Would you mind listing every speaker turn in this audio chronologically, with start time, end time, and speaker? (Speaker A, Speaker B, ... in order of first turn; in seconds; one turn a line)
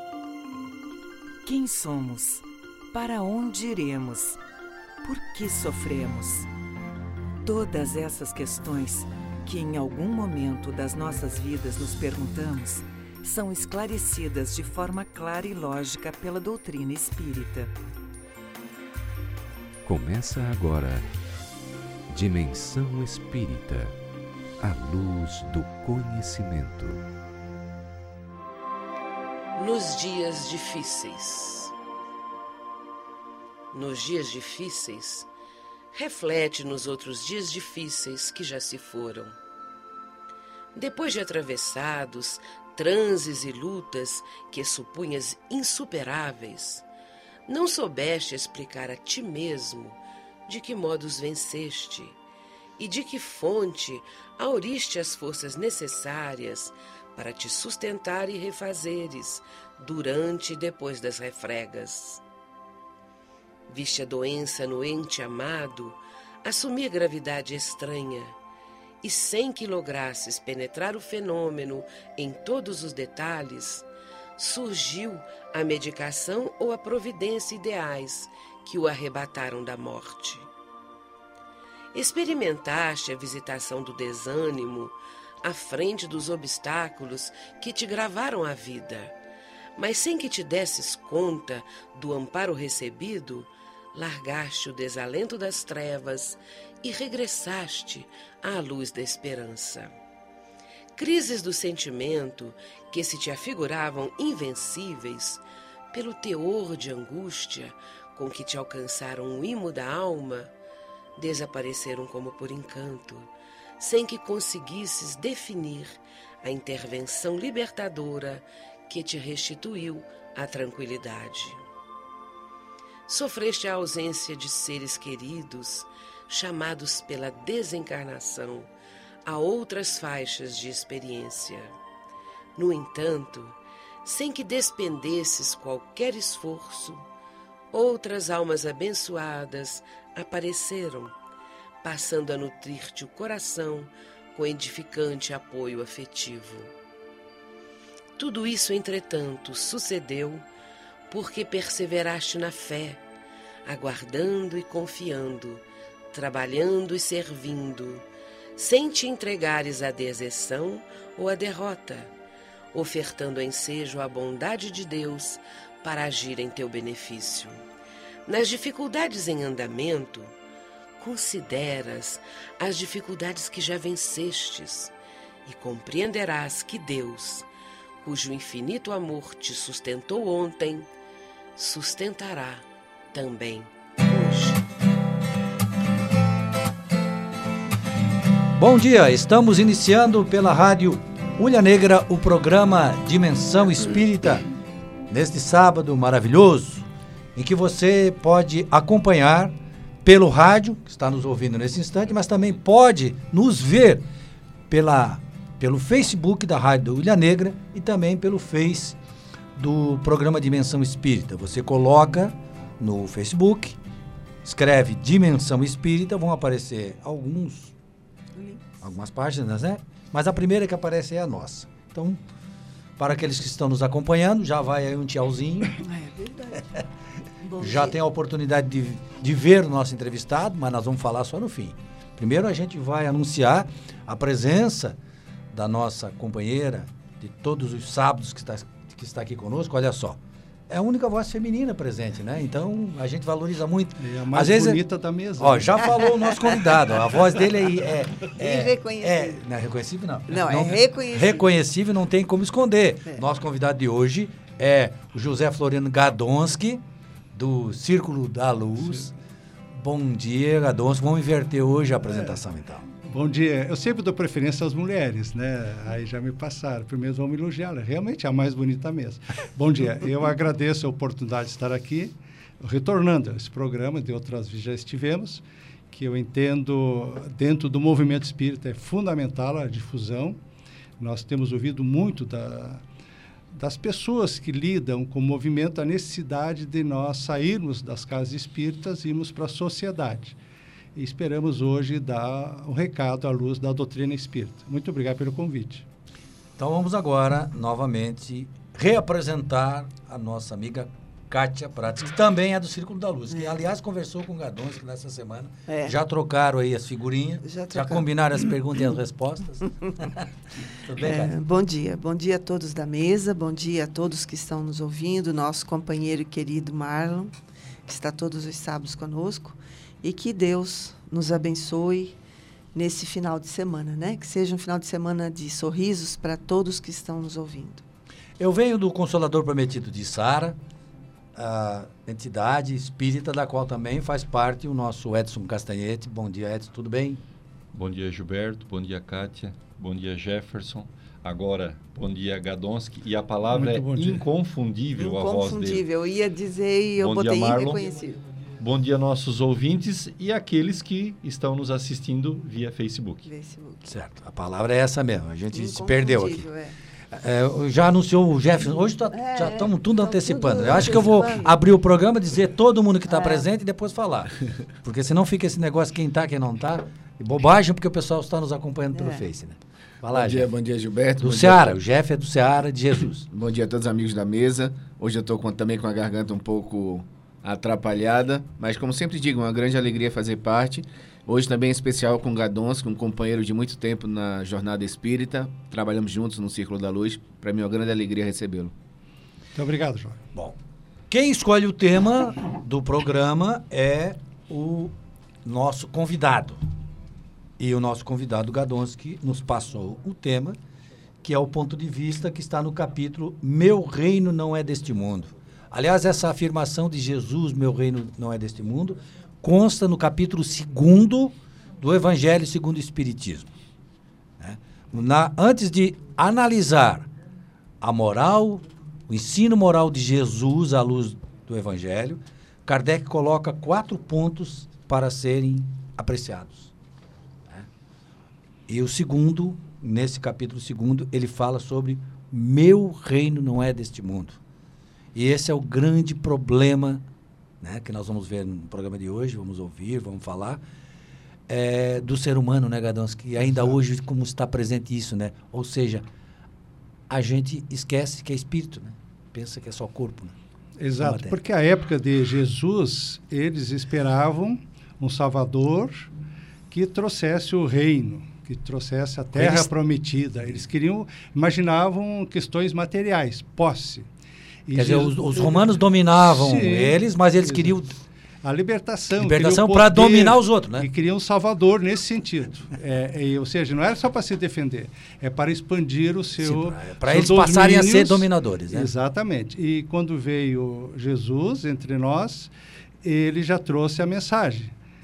Speaker A: 1.4-4.4
Speaker A: 5.0-6.5
Speaker A: 7.4-17.7
Speaker B: 19.9-21.1
Speaker B: 22.1-24.0
Speaker B: 24.6-27.0
Speaker C: 29.6-31.7
Speaker C: 33.7-35.3
Speaker C: 35.9-39.4
Speaker C: 40.7-46.8
Speaker C: 47.5-52.2
Speaker C: 52.8-62.2
Speaker C: 63.7-68.3
Speaker C: 69.0-73.8
Speaker C: 74.4-80.5
Speaker C: 81.9-89.1
Speaker C: 89.8-99.9
Speaker C: 101.0-110.5
Speaker C: 111.2-121.6
Speaker C: 123.1-128.7
Speaker C: 129.3-131.7
Speaker C: 132.6-137.1
Speaker C: 137.7-141.1
Speaker C: 141.8-146.7
Speaker C: 148.2-150.4
Speaker C: 151.1-153.0
Speaker C: 153.7-158.1
Speaker C: 158.6-162.1
Speaker C: 162.7-167.6
Speaker C: 168.3-170.3
Speaker C: 171.0-174.9
Speaker C: 175.4-177.5
Speaker C: 178.0-180.9
Speaker C: 181.6-184.6
Speaker D: 188.6-194.4
Speaker D: 195.1-204.0
Speaker D: 204.7-209.0
Speaker D: 209.6-213.8
Speaker D: 214.4-217.7
Speaker E: 218.3-218.6
Speaker D: 218.8-222.2
Speaker D: 223.0-225.8
Speaker E: 225.8-226.8
Speaker E: 227.4-228.0
Speaker D: 227.6-235.0
Speaker D: 235.5-244.8
Speaker F: 244.0-245.8
Speaker D: 245.4-256.8
Speaker E: 248.4-249.4
Speaker E: 250.3-251.5
Speaker D: 257.3-259.1
Speaker D: 259.7-262.9
Speaker F: 262.0-262.4
Speaker F: 263.0-280.4
Speaker F: 281.0-282.8
Speaker F: 283.5-290.4
Speaker F: 290.9-295.9
Speaker D: 296.6-311.3
Speaker E: 305.7-305.9
Speaker E: 307.4-308.1
Speaker E: 311.0-317.3
Speaker E: 317.9-322.2
Speaker E: 322.7-327.8
Speaker D: 328.4-330.6
Speaker D: 331.4-337.2
Speaker G: 337.7-345.9
Speaker F: 343.5-344.2
Speaker E: 345.0-348.2
Speaker G: 347.0-347.8
Speaker G: 348.6-353.3
Speaker E: 353.3-353.9
Speaker D: 353.9-356.4
Speaker E: 355.5-356.8
Speaker D: 357.1-370.5
Speaker E: 359.1-361.5
Speaker E: 363.1-363.4
Speaker E: 368.9-369.2
Speaker H: 370.1-371.8
Speaker D: 371.2-373.2
Speaker H: 373.3-388.7
Speaker F: 389.6-390.2
Speaker D: 391.1-394.9
Speaker D: 395.4-396.6
Speaker D: 397.6-400.6
Speaker D: 401.2-413.5
Speaker D: 414.4-417.1
Speaker D: 417.8-426.7
Speaker D: 428.7-434.4
Speaker D: 435.1-437.1
Speaker D: 437.6-440.6
Speaker D: 441.5-446.1
Speaker D: 447.1-450.4
Speaker F: 450.8-456.1
Speaker D: 451.0-451.4
Speaker F: 456.7-464.1
Speaker D: 459.3-459.7
Speaker F: 464.7-467.8
Speaker D: 464.7-467.9
Speaker F: 468.4-482.5
Speaker D: 469.2-470.9
Speaker D: 476.4-478.9
Speaker F: 483.0-484.7